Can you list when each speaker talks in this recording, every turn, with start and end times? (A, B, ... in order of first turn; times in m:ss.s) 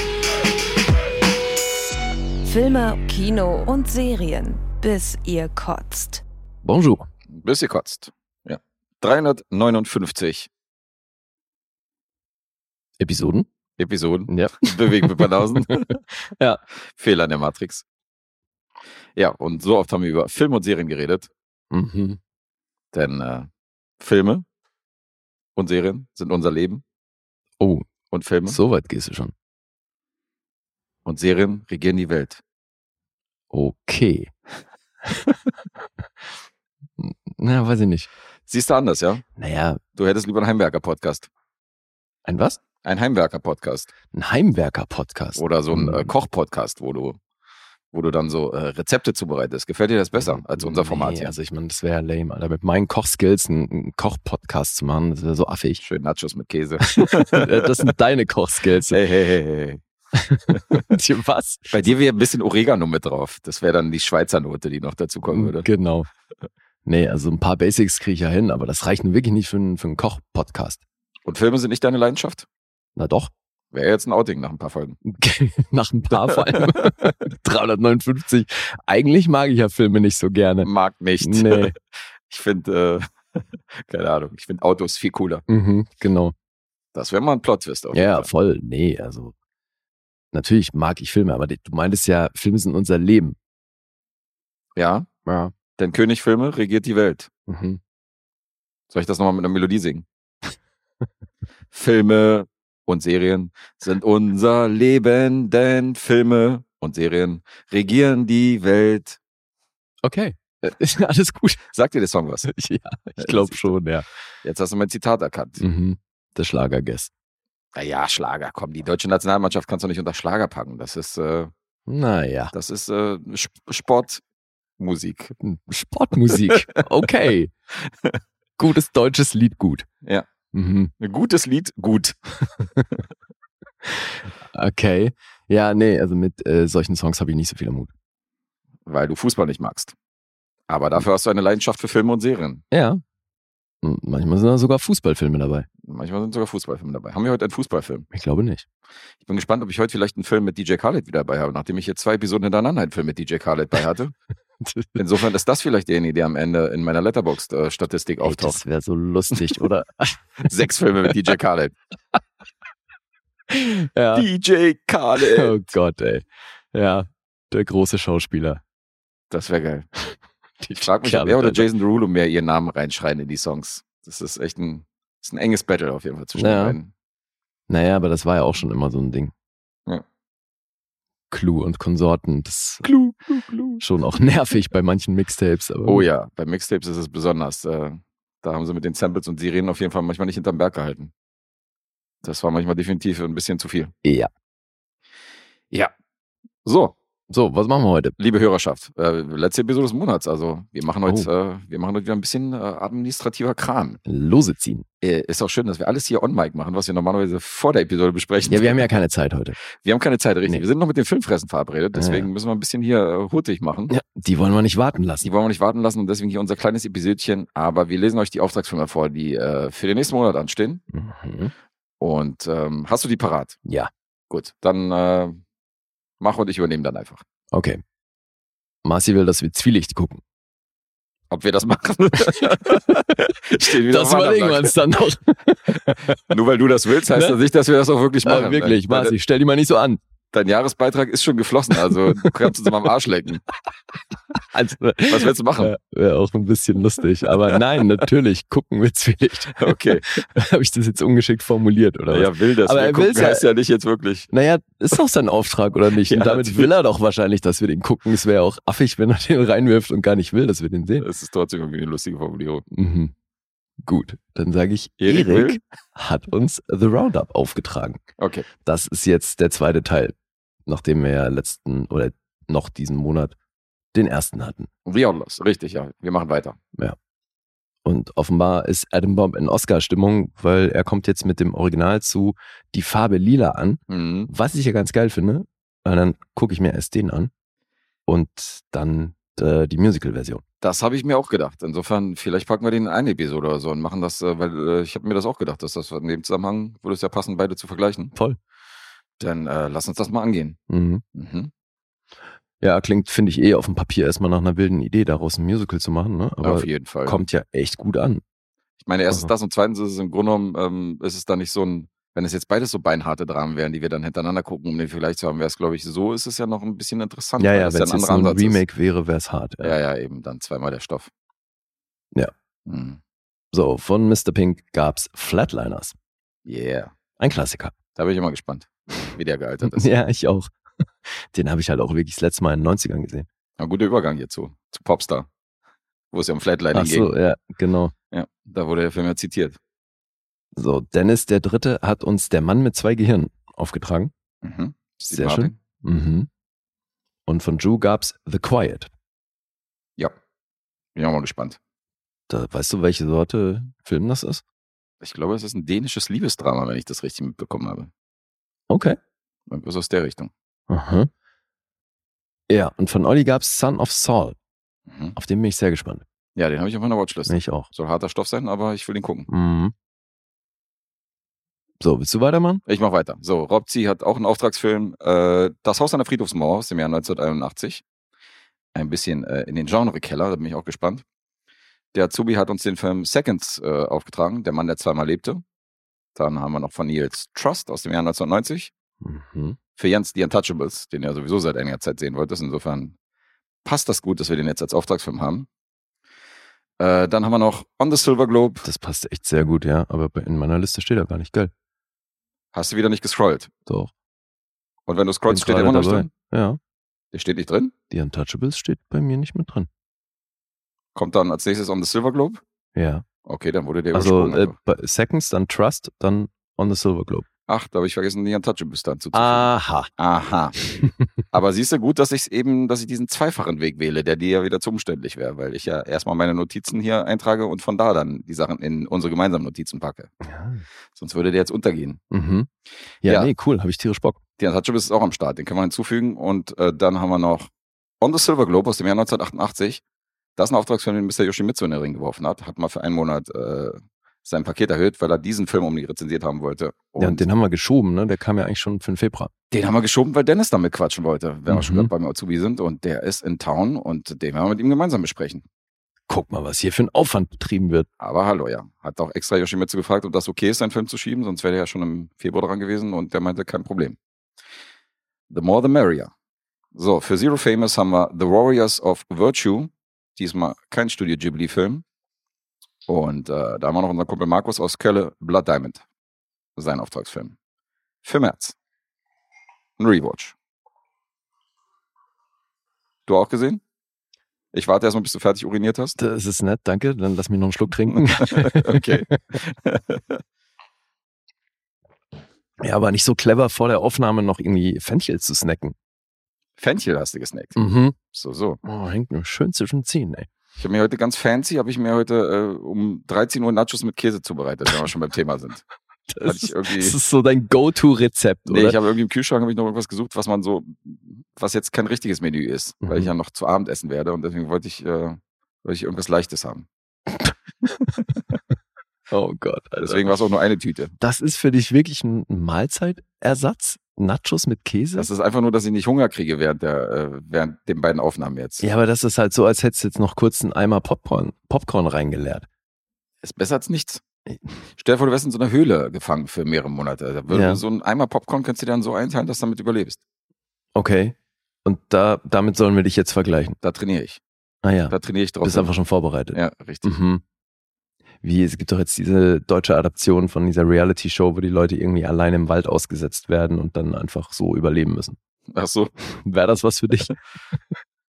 0:02.4-0:06.2 A
0:06.6-0:07.1 B
0:07.3-0:10.5 C
0:13.0-0:13.5 B
0:13.8-0:16.0 C
0:14.3-0:15.9 B
0:16.9-0:17.8 C
0:19.2-0:21.3 C
0:21.7-0:22.2 B
0:22.9-0:23.5 C
0:24.0-0:24.4 C
0:25.6-0:26.8 C
0:27.6-0:27.8 B
0:28.1-0:28.6 C
0:28.5-0:29.3 B
0:31.0-0:32.4 C
0:33.5-0:34.3 B
0:37.0-0:38.1 B
0:38.5-0:39.2 C
0:39.4-0:39.8 B
0:40.0-0:41.3 C
0:42.3-0:42.6 B
0:42.8-0:43.9 C
0:44.1-0:46.1 B
0:45.4-0:47.2 C
0:47.9-0:51.3 C
0:50.2-0:55.8 B
0:55.8-0:57.9 C
0:57.2-0:59.0 B
0:58.9-0:59.8 C
1:00.2-1:01.8 B
1:01.7-1:05.7 C
1:05.3-1:06.1 B
1:06.8-1:10.8 B
1:11.3-1:12.5 C
1:13.0-1:13.3 B
1:13.7-1:15.0 C
1:15.0-1:20.7 B
1:16.1-1:16.6 C
1:20.6-1:25.4 C
1:21.2-1:21.7 B
1:25.5-1:26.3 B
1:26.9-1:28.3 C
1:27.9-1:29.3 B
1:30.3-1:33.4 B
1:34.8-1:35.1 C
1:35.3-1:35.5 B
1:35.8-1:37.3 C
1:37.5-1:37.8 B
1:38.9-1:40.1 C
1:41.7-1:49.2 C
1:50.0-1:51.6 B
1:51.7-1:52.5 C
1:52.4-1:54.1 B
1:53.2-1:53.7 C
1:54.4-1:55.6 C
1:55.6-1:57.1 B
1:57.8-2:01.5 C
2:01.9-2:02.5 B
2:02.5-2:04.2 C
2:04.8-2:05.4 C
2:05.4-2:07.5 B
2:06.3-2:07.1 C
2:07.9-2:08.2 C
2:08.6-2:09.9 B
2:10.5-2:10.9 B
2:11.0-2:12.2 C
2:13.8-2:17.9 B
2:18.9-2:19.9 C
2:20.7-2:22.6 C
2:22.7-2:23.0 B
2:23.8-2:25.7 B
2:25.8-2:28.1 C
2:28.1-2:28.6 B
2:29.2-2:34.1 C
2:34.6-2:35.0 B
2:35.0-2:38.6 C
2:38.2-2:40.2 B
2:40.4-2:41.8 C
2:43.5-2:44.3 B
2:44.1-2:45.6 C
2:45.2-2:48.6 B
2:49.3-2:49.9 C
2:50.1-2:51.7 B
2:50.8-2:56.9 C
2:56.4-2:56.8 B
2:57.7-2:59.3 B
3:01.3-3:02.8 B
3:02.8-3:03.8 C
3:03.8-3:06.0 B
3:05.9-3:11.1 C
3:12.2-3:13.9 C
3:14.0-3:14.3 B
3:16.6-3:17.0 C
3:17.3-3:18.2 B
3:18.2-3:24.0 C
3:24.0-3:24.8 B
3:25.0-3:28.9 C
3:28.5-3:29.6 B
3:29.7-3:33.9 C
3:31.9-3:32.3 B
3:33.9-3:35.3 B
3:35.2-3:40.8 C
3:40.9-3:41.5 B
3:42.0-3:43.6 C
3:43.7-3:43.9 B
3:44.3-3:45.4 C
3:46.2-3:47.2 C
3:47.5-3:47.8 B
3:48.8-3:50.2 B
3:51.3-3:54.8 C
3:53.6-3:56.2 B
3:56.1-3:59.2 C
3:58.2-4:00.0 B
4:00.3-4:03.4 C
4:01.9-4:02.5 B
4:04.4-4:13.5 B
4:05.1-4:05.8 C
4:09.5-4:10.2 C
4:12.1-4:14.3 C
4:14.3-4:21.1 B
4:15.9-4:16.7 C
4:21.0-4:22.7 C
4:22.7-4:23.1 B
4:23.9-4:28.0 B
4:25.0-4:25.6 C
4:28.2-4:28.5 C
4:28.6-4:30.2 B
4:30.7-4:33.3 B
4:33.9-4:34.7 B
4:34.9-4:36.6 C
4:37.8-4:47.3 B
4:43.9-4:44.3 C
4:48.1-4:50.4 B
4:50.6-4:58.1 C
4:59.2-5:00.6 C
5:00.7-5:01.0 B
5:01.2-5:01.5 C
5:02.6-5:08.2 B
5:06.4-5:07.2 C
5:08.8-5:18.6 C
5:17.4-5:19.8 B
5:19.6-5:21.1 C
5:22.7-5:23.0 C
5:23.5-5:26.0 B
5:26.5-5:26.9 C
5:27.2-5:27.7 B
5:28.0-5:29.9 C
5:29.6-5:30.5 B
5:31.1-5:33.3 B
5:33.6-5:35.3 C
5:36.1-5:37.1 C
5:36.7-5:37.9 B
5:38.1-5:39.6 C
5:40.6-5:44.1 B
5:44.4-5:45.6 C
5:45.1-5:46.3 B
5:47.3-5:48.9 B
5:51.0-5:51.6 C
5:52.3-5:54.4 B
5:55.0-5:57.9 C
5:58.7-5:59.0 B
5:59.5-6:00.3 C
6:00.7-6:01.1 B
6:02.5-6:04.4 B
6:04.9-6:05.2 C
6:05.2-6:06.0 B
6:06.4-6:09.3 C
6:07.3-6:07.7 B
6:09.3-6:09.7 B
6:11.8-6:12.6 B
6:12.7-6:17.8 C
6:18.7-6:21.0 C
6:21.9-6:25.4 C
6:26.2-6:28.7 C
6:29.0-6:29.6 B
6:29.8-6:33.0 C
6:33.6-6:35.5 C
6:36.8-6:38.7 C
6:38.6-6:41.5 B
6:42.5-6:43.5 C
6:43.7-6:43.9 B
6:44.9-6:46.1 C
6:45.3-6:46.6 B
6:47.1-6:47.7 C
6:47.9-6:49.7 B
6:51.0-6:52.4 C
6:52.8-6:53.0 B
6:53.2-6:54.6 C
6:53.9-6:57.2 B
6:57.5-7:00.6 C
6:59.1-6:59.9 B
7:01.3-7:10.1 C
7:10.2-7:10.6 B
7:10.9-7:12.0 C
7:12.1-7:12.5 B
7:13.0-7:14.2 B
7:13.0-7:13.3 C
7:14.4-7:17.5 C
7:18.0-7:19.8 C
7:20.4-7:27.3 C
7:27.0-7:29.3 B
7:29.5-7:35.4 C
7:31.5-7:31.9 B
7:36.1-7:37.9 B
7:38.0-7:44.0 C
7:45.3-7:46.1 C
7:46.8-7:51.8 C
7:52.9-7:55.8 C
7:56.6-7:57.4 C
7:58.0-7:58.6 C
7:59.8-8:00.4 C
8:03.1-8:03.6 C
8:04.5-8:06.0 C
8:06.0-8:08.9 B
8:07.9-8:10.2 C
8:12.6-8:15.7 B
8:16.6-8:18.6 C
8:17.6-8:18.0 B
8:18.6-8:20.3 B
8:20.6-8:25.6 C
8:26.1-8:28.8 B
8:26.2-8:27.0 C
8:28.5-8:36.7 C
8:32.8-8:33.1 B
8:39.1-8:40.2 B
8:39.8-8:40.9 C
8:41.0-8:45.1 B
8:45.0-8:48.7 C
8:48.6-8:52.5 B
8:53.2-8:54.0 C
8:54.8-9:00.0 C
8:57.3-8:57.6 B
9:00.8-9:03.6 B
9:03.6-9:04.2 C
9:04.6-9:07.2 B
9:04.9-9:05.7 C
9:06.3-9:07.0 C
9:08.2-9:15.2 B
9:15.5-9:15.9 C
9:16.1-9:17.2 B